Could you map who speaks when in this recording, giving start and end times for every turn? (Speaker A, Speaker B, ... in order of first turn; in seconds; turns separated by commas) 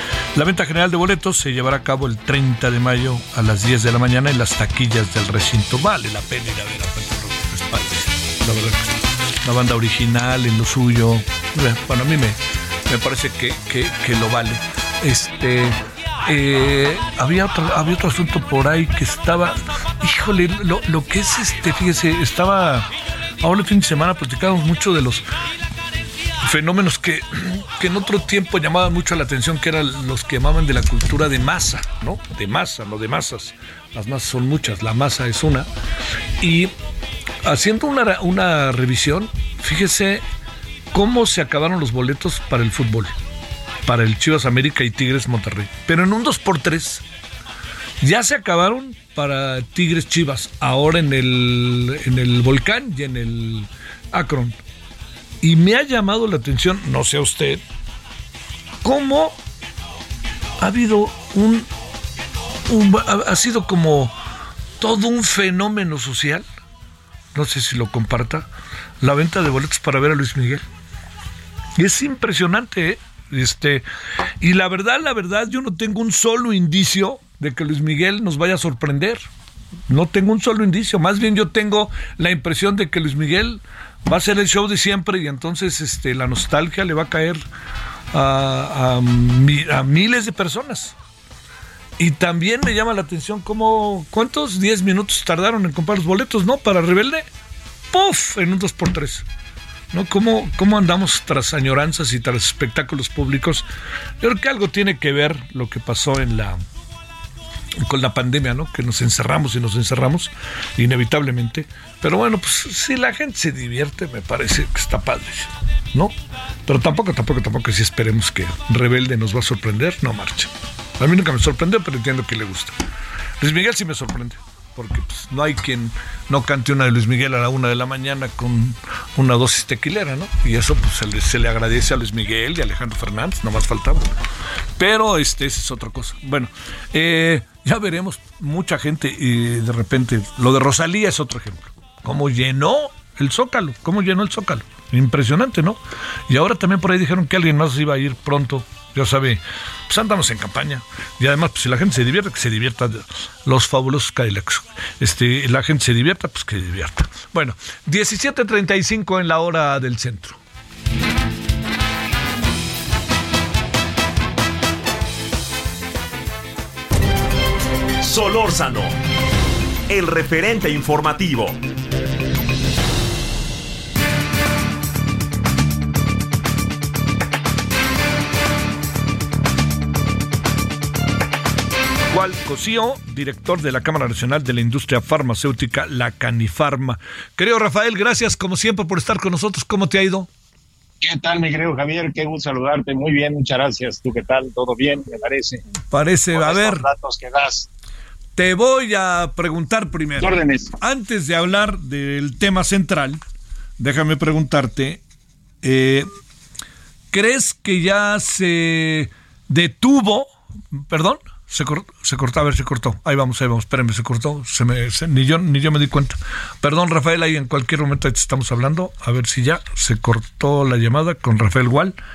Speaker A: 0.3-22.9, Speaker A: 23.4-25.2, Speaker A: 26.4-35.7, Speaker A: 36.4-36.7, Speaker A: 37.4-40.2, Speaker A: 40.9-43.1, Speaker A: 43.8-47.0, Speaker A: 48.0-54.5, Speaker A: 55.4-57.6, Speaker A: 58.8-59.3, Speaker A: 60.6-61.7, Speaker A: 62.7-64.1, Speaker A: 64.8-66.4, Speaker A: 67.3-68.5, Speaker A: 69.0-70.6, Speaker A: 71.8-73.8, Speaker A: 74.4-79.2, Speaker A: 79.9-87.4, Speaker A: 88.1-90.9, Speaker A: 92.0-97.2, Speaker A: 97.9-99.2, Speaker A: 99.9-103.6, Speaker A: 104.2-106.6, Speaker A: 107.8-116.1, Speaker A: 116.7-122.7, Speaker A: 123.4-134.0, Speaker A: 134.8-160.4, Speaker B: 168.0-168.9, Speaker B: 169.9-171.6, Speaker A: 182.1-190.3, Speaker C: 191.0-195.6, Speaker A: 195.9-196.8, Speaker C: 196.3-197.7, Speaker A: 198.3-203.2, Speaker C: 200.2-200.7, Speaker A: 203.8-205.0, Speaker A: 205.6-206.1, Speaker A: 207.1-221.9